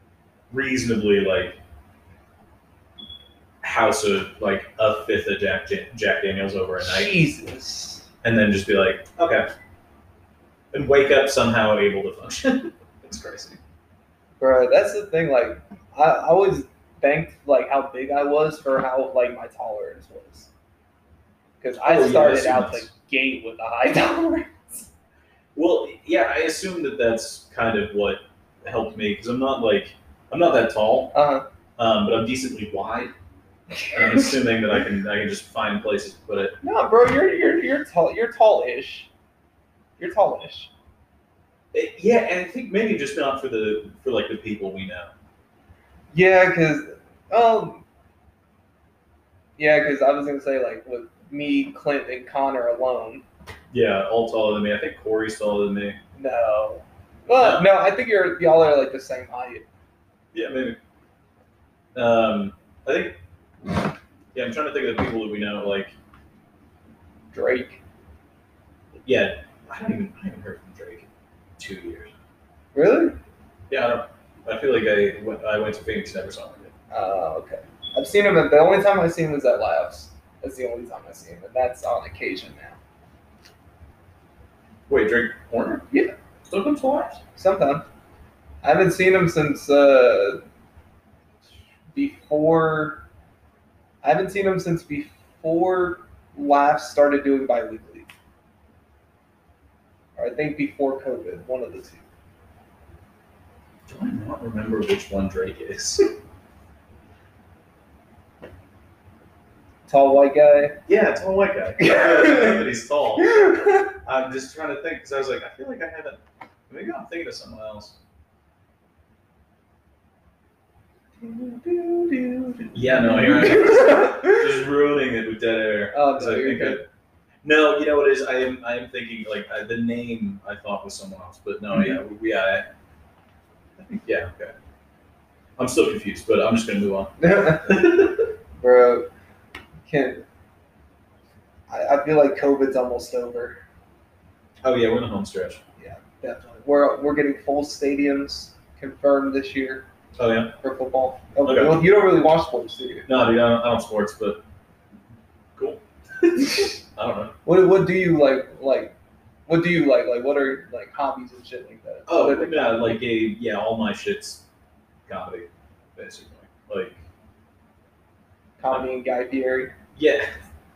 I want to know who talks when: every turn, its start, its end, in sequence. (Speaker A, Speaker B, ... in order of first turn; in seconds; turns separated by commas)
Speaker A: 0.5-1.6, Speaker A: 3.6-7.2, Speaker B: 6.8-8.1, Speaker A: 8.2-9.5, Speaker A: 10.7-13.6, Speaker B: 14.4-20.5, Speaker B: 21.6-24.9, Speaker A: 21.8-22.9, Speaker A: 25.5-31.1, Speaker B: 31.1-31.4, Speaker A: 31.8-33.1, Speaker B: 33.8-34.3, Speaker A: 33.9-36.5, Speaker B: 36.6-39.1, Speaker B: 40.0-40.7, Speaker A: 41.7-45.1, Speaker B: 46.1-47.8, Speaker B: 49.6-53.2, Speaker A: 53.7-56.0, Speaker B: 56.1-59.6, Speaker A: 57.4-57.7, Speaker A: 60.3-60.8, Speaker A: 61.9-63.2, Speaker A: 64.3-65.9, Speaker B: 67.3-67.8, Speaker A: 69.0-72.1, Speaker B: 72.7-73.2, Speaker A: 73.7-76.7, Speaker B: 76.9-82.8, Speaker A: 84.9-85.9, Speaker A: 86.5-87.2, Speaker B: 87.3-87.8, Speaker B: 88.6-90.4, Speaker B: 91.9-93.0, Speaker B: 94.0-98.1, Speaker B: 100.2-102.0, Speaker A: 103.9-106.1, Speaker B: 109.9-110.8, Speaker A: 110.8-118.0, Speaker B: 111.8-112.7, Speaker B: 113.2-113.9, Speaker B: 121.2-124.5, Speaker A: 122.7-126.8, Speaker B: 125.9-126.8, Speaker A: 127.4-132.7, Speaker A: 133.8-134.5, Speaker A: 135.6-138.3, Speaker B: 137.2-138.1, Speaker B: 138.6-139.1, Speaker B: 139.9-140.2, Speaker B: 141.7-143.6, Speaker A: 144.6-145.6, Speaker B: 145.8-149.8, Speaker A: 150.2-150.5, Speaker B: 150.6-153.1, Speaker A: 151.4-151.8, Speaker A: 153.1-154.4, Speaker A: 155.6-157.3, Speaker B: 157.4-158.9, Speaker B: 159.5-163.0, Speaker A: 162.1-164.4, Speaker A: 165.1-167.0, Speaker B: 168.6-169.7, Speaker A: 169.9-170.3